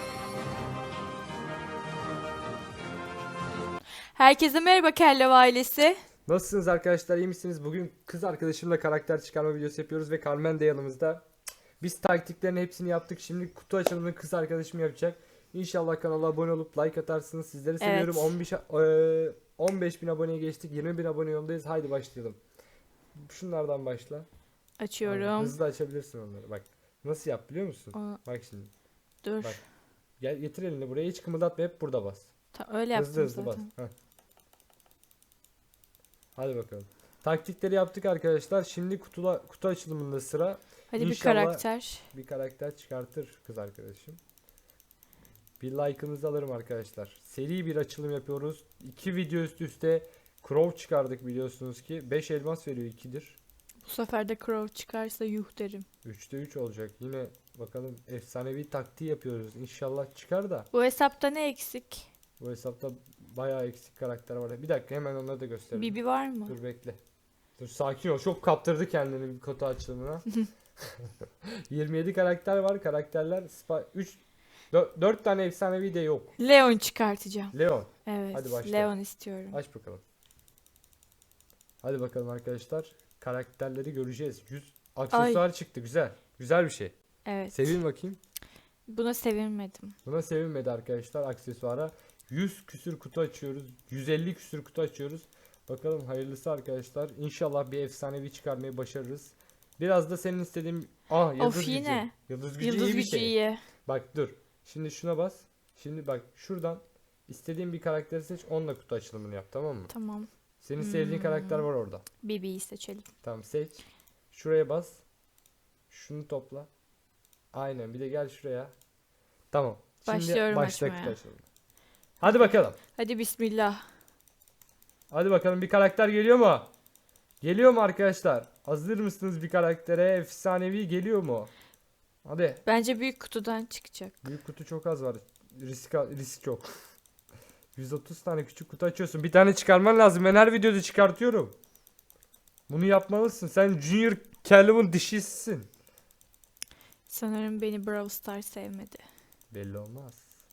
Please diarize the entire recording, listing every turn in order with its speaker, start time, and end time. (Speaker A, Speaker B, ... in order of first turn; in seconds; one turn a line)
Speaker A: 4.2-6.0
Speaker B: 6.3-11.2
Speaker B: 11.8-22.4
Speaker A: 17.8-18.3
Speaker B: 23.2-24.3
Speaker A: 24.8-25.6
Speaker B: 25.1-28.7
Speaker A: 27.9-28.2
Speaker A: 29.2-29.6
Speaker B: 30.2-32.3
Speaker A: 32.5-33.7
Speaker B: 32.9-33.9
Speaker B: 36.4-44.2
Speaker A: 40.9-42.1
Speaker B: 45.6-53.4
Speaker A: 53.9-55.9
Speaker B: 56.0-60.7
Speaker A: 60.7-62.1
Speaker B: 62.4-67.0
Speaker A: 65.8-66.6
Speaker B: 67.6-71.1
Speaker B: 71.7-74.2
Speaker B: 74.7-76.3
Speaker A: 76.4-79.6
Speaker B: 77.5-78.9
Speaker B: 79.5-80.0
Speaker B: 81.8-87.0
Speaker A: 85.1-85.4
Speaker A: 87.2-87.7
Speaker B: 87.5-88.2
Speaker A: 88.9-90.0
Speaker B: 90.0-109.9
Speaker A: 101.4-103.6
Speaker A: 109.9-111.7
Speaker B: 110.6-112.0
Speaker A: 112.2-113.1
Speaker B: 113.2-115.0
Speaker B: 115.9-116.7
Speaker B: 117.5-118.7
Speaker B: 119.5-121.5
Speaker A: 120.0-121.2
Speaker B: 122.2-122.8
Speaker A: 122.3-123.8
Speaker B: 125.1-126.7
Speaker B: 127.4-131.5
Speaker B: 132.2-132.6
Speaker A: 132.7-134.2
Speaker B: 134.2-136.7
Speaker B: 137.8-141.6
Speaker B: 142.7-145.7
Speaker A: 147.1-149.0
Speaker B: 149.5-150.3